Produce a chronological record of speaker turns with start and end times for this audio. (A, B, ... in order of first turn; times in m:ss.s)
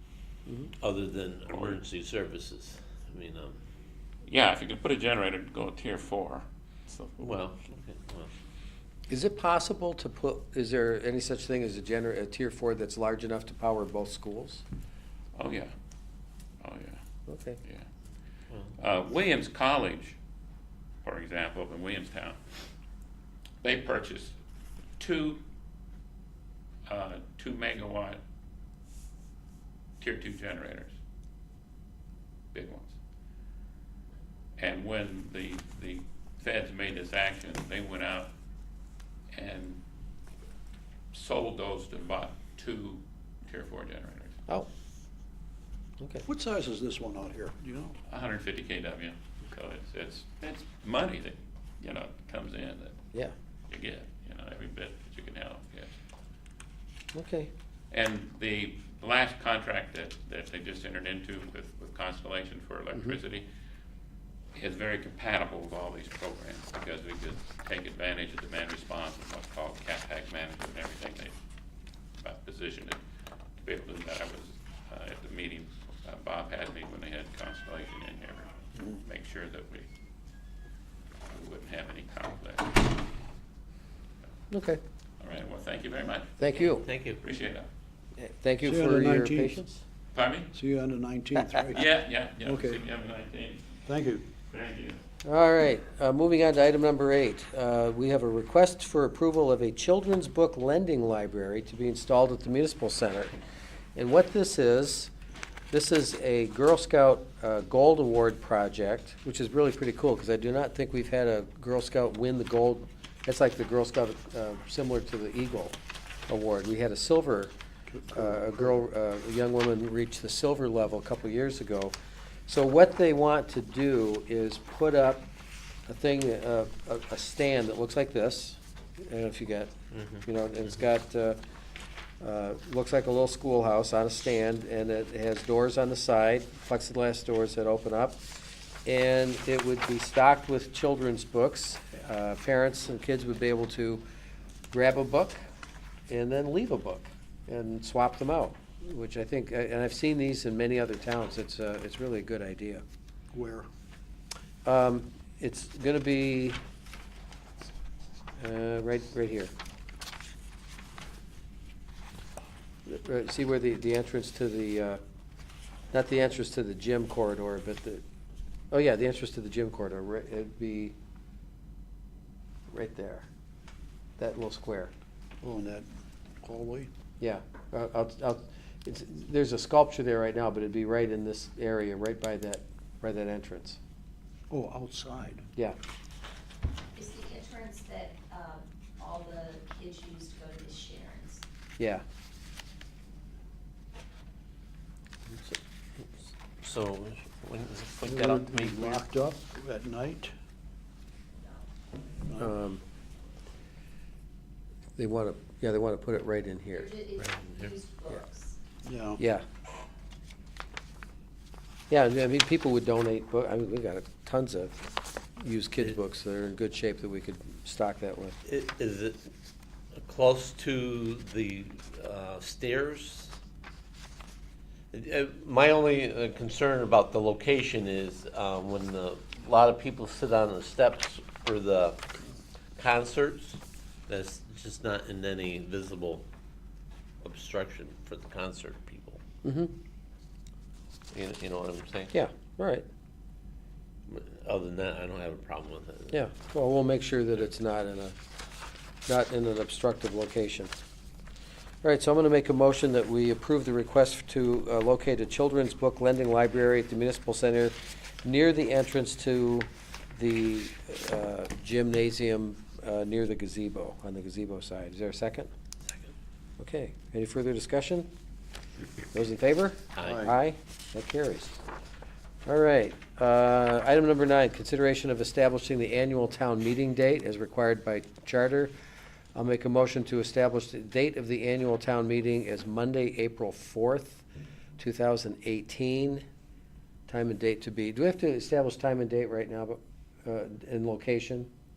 0:00.8-0:03.6 A
0:01.5-0:01.8 B
0:04.3-0:07.4 B
0:07.2-0:08.3 A
0:09.1-0:14.6 C
0:15.4-0:15.7 B
0:16.6-0:17.0 B
0:17.3-0:17.6 C
0:18.8-0:20.2 B
0:21.0-0:22.4 B
0:23.6-0:24.4 B
0:25.0-0:25.4 B
0:26.9-0:28.2 B
0:30.0-0:31.0 B
0:32.5-0:33.0 B
0:34.6-0:38.3 B
0:39.3-0:39.8 B
0:41.1-0:44.4 B
0:46.0-0:46.3 C
0:46.3-0:48.0 D
0:48.1-0:53.0 B
0:53.7-0:55.9 B
0:57.1-0:57.5 C
0:57.9-1:03.5 B
1:04.6-1:11.4 B
1:12.2-1:13.0 B
1:13.6-1:19.9 B
1:21.3-1:22.9 B
1:24.5-1:24.8 C
1:25.2-1:26.5 B
1:26.4-1:26.8 C
1:26.7-1:27.2 A
1:27.2-1:27.7 B
1:28.2-1:29.8 C
1:28.6-1:29.6 D
1:30.1-1:30.5 B
1:30.5-1:31.8 D
1:31.4-1:31.6 C
1:31.7-1:33.6 B
1:32.4-1:32.8 D
1:33.9-1:34.3 D
1:34.5-1:35.0 B
1:35.2-1:43.3 C
1:44.0-1:45.1 C
1:45.7-1:55.8 C
1:56.3-1:57.5 C
1:57.9-1:58.8 D
1:58.1-2:02.0 C
2:02.5-2:05.3 C
2:05.9-2:09.7 C
2:09.9-2:10.3 A
2:10.3-2:11.4 C
2:12.2-2:18.2 C
2:18.8-2:24.0 C
2:24.7-2:25.4 C
2:26.1-2:32.8 C
2:33.3-2:33.7 D
2:34.6-2:36.6 C
2:38.4-2:39.5 C
2:42.9-2:45.0 C
2:45.9-2:48.0 C
2:48.7-2:51.0 C
2:52.7-2:53.3 C
2:54.2-2:54.9 C
2:55.4-2:55.9 D
2:56.4-2:56.9 D
2:57.2-3:03.8 C
3:04.5-3:05.4 D
3:07.0-3:11.4 E
3:11.8-3:12.0 C
3:16.0-3:19.1 A
3:18.1-3:20.3 D
3:21.4-3:21.7 E
3:22.3-3:22.5 D
3:22.4-3:22.8 C
3:25.0-3:26.9 C
3:26.7-3:28.6 E
3:27.2-3:27.7 A
3:28.8-3:29.2 D
3:29.2-3:29.4 C
3:31.9-3:34.8 C
3:35.4-3:38.4 C
3:38.4-3:39.3 A
3:40.0-3:43.4 A
3:44.9-3:52.1 A
3:52.8-3:56.3 A
3:57.2-3:59.2 A
3:59.4-3:59.7 C
4:01.1-4:02.2 A
4:02.1-4:02.9 C
4:04.1-4:06.2 A
4:06.1-4:08.2 C
4:09.1-4:10.8 C
4:11.8-4:25.5 C
4:26.6-4:28.1 C
4:29.1-4:31.6 C
4:30.0-4:30.3 A
4:30.0-4:30.3 D
4:32.5-4:38.7 C
4:39.4-4:44.2 C
4:44.8-4:46.2 C
4:47.1-4:51.5 C